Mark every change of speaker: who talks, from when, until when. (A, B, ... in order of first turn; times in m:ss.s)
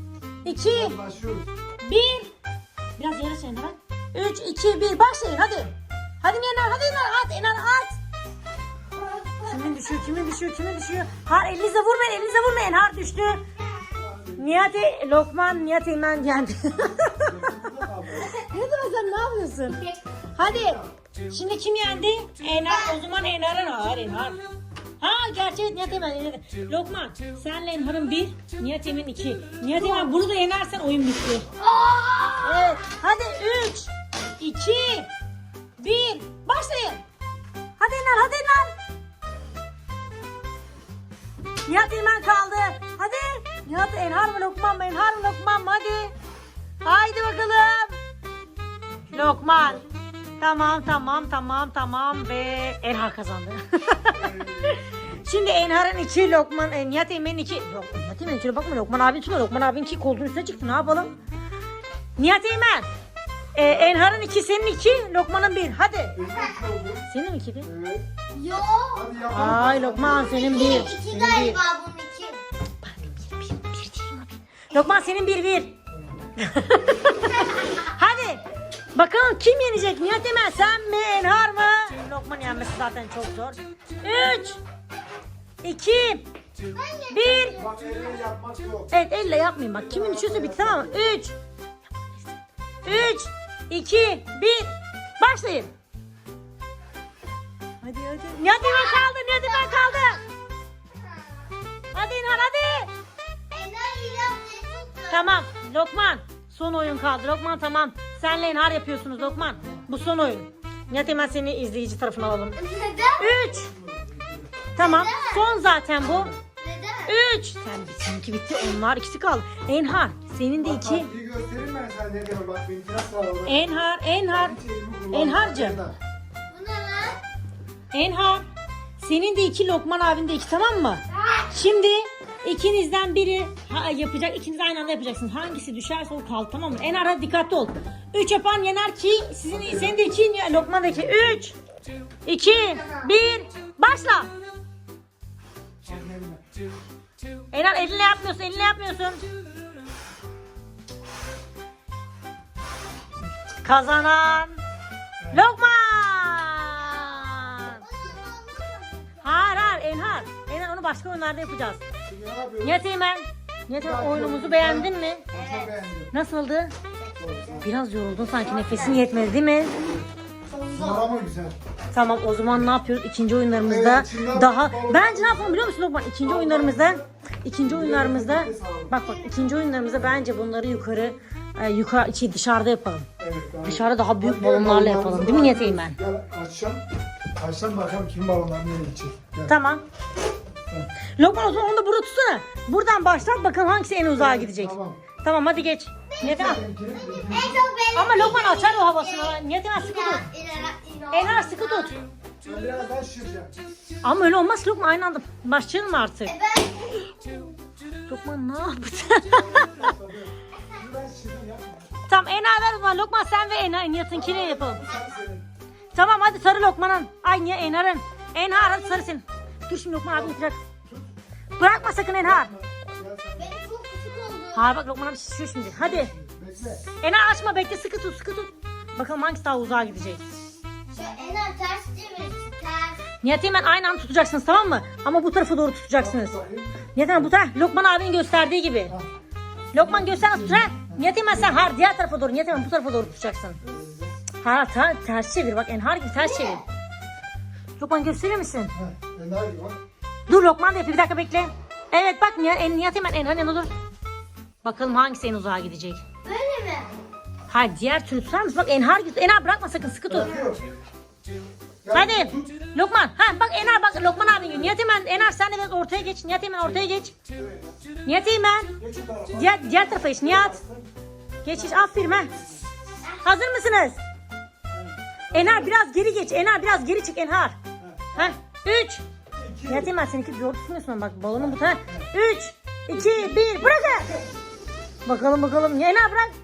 0:00.4-0:01.0 A
0:00.5-0:01.5 B
0:01.8-0:02.3 A
0:03.0-0:08.0 A
0:09.2-0:09.5 C
0:09.4-0:13.4 A
0:13.9-0:14.7 B
0:14.4-0:17.3 A
0:17.2-0:18.4 B
0:18.2-0:24.4 A
0:20.4-0:20.9 B
0:22.7-0:23.0 C
0:25.0-0:31.4 A
0:29.7-0:30.1 C
0:31.6-0:32.8 C
0:32.4-0:35.1 A
0:35.8-0:37.0 A
0:37.8-0:38.7 A
0:41.6-0:46.1 A
0:46.8-0:48.0 A
0:48.9-0:49.9 B
0:49.1-0:49.8 A
0:50.4-1:01.1 A
0:54.1-0:54.8 B
1:02.2-1:02.9 A
1:03.5-1:06.2 A
1:03.6-1:04.1 B
1:06.1-1:07.1 B
1:06.3-1:06.6 C
1:07.1-1:07.7 A
1:07.6-1:08.1 B
1:08.3-1:09.0 C
1:08.9-1:10.5 B
1:09.3-1:11.6 A
1:10.0-1:12.4 C
1:12.8-1:15.7 A
1:15.9-1:16.2 B
1:16.4-1:18.4 A
1:18.9-1:24.6 A
1:25.6-1:26.2 A
1:26.7-1:28.1 C
1:27.1-1:27.6 A
1:27.6-1:28.9 B
1:28.9-1:31.3 A
1:29.7-1:31.0 B
1:32.8-1:35.7 A
1:37.8-1:40.2 A
1:38.4-1:40.3 C
1:41.9-1:42.9 A
1:43.5-1:45.4 C
1:45.1-1:52.6 A
1:49.6-1:49.9 B
1:52.6-1:53.4 C
1:53.2-1:53.7 A
1:53.4-1:54.7 B
1:54.7-1:56.3 A
1:54.8-1:55.5 C
1:56.0-1:56.4 B
1:56.6-1:57.2 C
1:57.1-2:01.1 A
2:00.6-2:05.9 B
2:03.4-2:04.6 A
2:05.1-2:05.8 A
2:06.5-2:07.2 C
2:07.9-2:08.4 A
2:09.0-2:21.5 A
2:19.5-2:20.0 B
2:22.2-2:24.3 A
2:25.8-2:26.4 B
2:27.5-2:29.2 A
2:33.6-2:34.6 A
2:35.2-2:35.4 B
2:35.3-2:37.8 A
2:36.8-2:39.4 C
2:39.2-2:41.8 A
2:42.0-2:42.8 B
2:42.6-2:45.2 A
2:43.7-2:46.1 B
2:45.3-2:45.7 C
2:46.1-2:46.7 A
2:47.1-2:47.5 C
2:47.2-2:47.6 B
2:47.6-2:49.8 A
2:48.3-2:49.1 C
2:49.8-2:50.1 B
2:50.5-2:51.1 C
2:50.7-2:51.6 B
2:51.9-3:03.1 A
2:53.6-2:55.7 B
2:56.2-2:57.1 B
2:57.6-2:59.0 B
2:59.0-2:59.5 C
3:03.2-3:06.8 B
3:03.6-3:06.0 A
3:07.4-3:09.5 B
3:09.5-3:09.8 A
3:11.2-3:16.6 A
3:14.1-3:15.0 B
3:16.1-3:22.0 C
3:16.2-3:17.6 B
3:18.0-3:20.2 A
3:21.1-3:22.0 A
3:22.4-3:23.6 B
3:24.0-3:26.3 A
3:26.2-3:27.5 C
3:28.1-3:29.8 A
3:29.2-3:31.9 B
3:32.1-3:34.8 A
3:34.1-3:35.5 B
3:35.9-3:40.6 A
3:40.1-3:41.1 B
3:41.6-3:42.5 A
3:42.1-3:43.6 B
3:43.4-3:44.7 C
3:44.5-3:46.1 A
3:45.6-3:46.8 B
3:47.0-3:50.2 A
3:50.9-3:53.0 C
3:53.2-3:56.4 A
3:56.0-3:57.3 B
3:56.9-3:58.9 A
3:59.7-4:03.6 A
3:59.7-4:01.6 B
4:03.6-4:04.2 B
4:04.4-4:06.6 A
4:06.2-4:06.6 C
4:07.8-4:08.7 A
4:08.7-4:09.8 B
4:10.3-4:13.7 A
4:14.6-4:16.0 A
4:16.2-4:16.9 C
4:17.5-4:20.4 A
4:20.1-4:20.7 B
4:21.8-4:22.5 B
4:21.9-4:27.1 A
4:24.3-4:24.7 B
4:26.7-4:27.8 B
4:28.0-4:28.7 A
4:28.8-4:30.9 B
4:29.3-4:30.6 A
4:31.4-4:32.3 A
4:31.5-4:32.7 B
4:33.2-4:34.0 A
4:34.7-4:35.7 B
4:35.3-4:37.6 A
4:37.8-4:38.3 B
4:38.1-4:39.0 A
4:39.4-4:39.9 B
4:39.6-4:44.2 A
4:41.4-4:42.1 B
4:42.9-4:44.2 B
4:45.0-4:46.3 A